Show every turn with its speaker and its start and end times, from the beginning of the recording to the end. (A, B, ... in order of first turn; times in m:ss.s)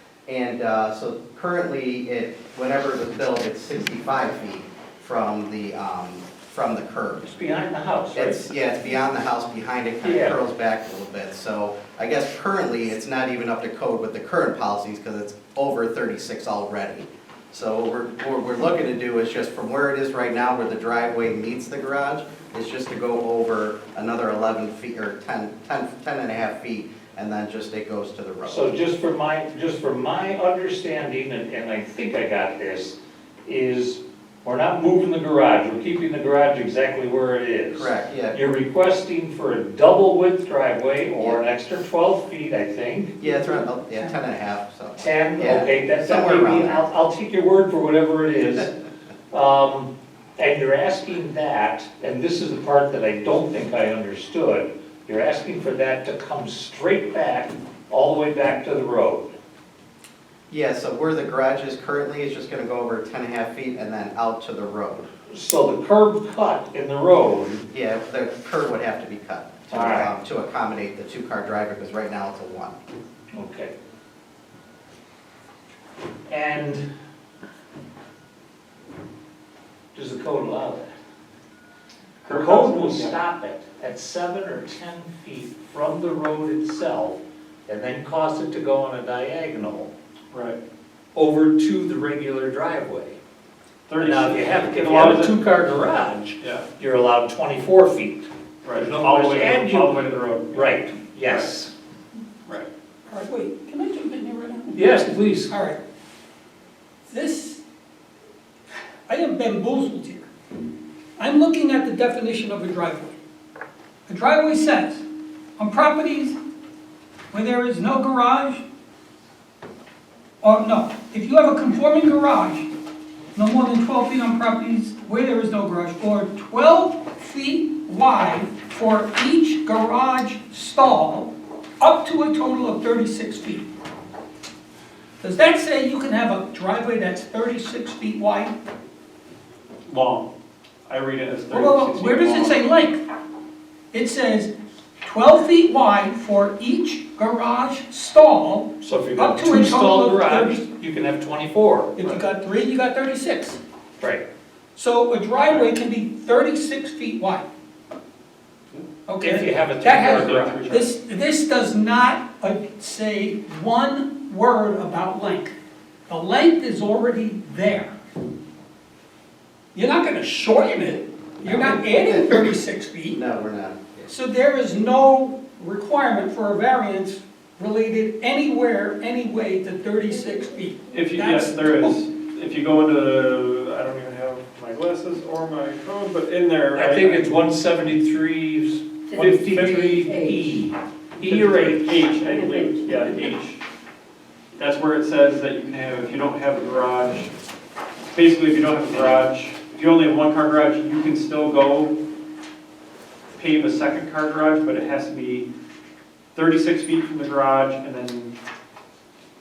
0:00.3-0:07.3 A
0:07.2-0:08.4 B
0:08.1-0:28.7 A
0:10.0-0:10.4 B
0:28.4-0:43.1 B
0:37.7-0:38.4 A
0:43.2-0:46.8 A
0:43.2-0:44.1 C
0:45.0-0:48.7 B
0:49.3-0:59.3 B
1:00.5-1:05.1 A
1:05.3-1:07.6 B
1:07.7-1:12.7 A
1:09.7-1:10.1 B
1:13.3-1:13.7 B
1:16.3-1:16.8 B
1:19.9-1:20.9 B
1:22.2-1:23.1 D
1:22.3-1:29.9 B
1:30.3-1:30.6 D
1:31.1-1:33.2 B
1:33.9-1:35.4 D
1:34.0-1:41.7 B
1:38.6-1:41.5 D
1:43.1-1:45.0 C
1:44.7-1:45.5 B
1:45.5-1:45.8 C
1:47.1-1:47.6 C
1:49.1-1:50.3 C
1:51.2-1:53.1 C
1:54.1-1:55.0 C
1:55.6-1:56.4 C
1:57.3-1:58.6 C
2:00.4-2:02.7 C
2:03.3-2:13.6 C
2:15.2-2:18.5 C
2:19.9-2:20.3 D
2:20.9-2:22.6 D
2:21.5-2:23.0 C
2:23.9-2:30.6 C
2:28.8-2:31.9 B
2:32.0-2:33.6 C
2:34.7-2:37.4 C
2:39.1-2:45.5 C
2:39.2-2:40.8 B
2:39.8-2:40.8 D
2:46.1-2:47.9 C
2:49.7-2:53.2 C
2:51.4-2:52.5 A
2:53.1-2:54.1 A
2:54.1-3:02.0 C
3:00.9-3:07.3 D
3:06.7-3:12.0 B
3:09.1-3:10.1 D
3:11.2-3:13.6 D
3:14.6-3:17.3 D
3:18.1-3:21.9 D
3:23.4-3:25.5 D
3:26.3-3:28.3 D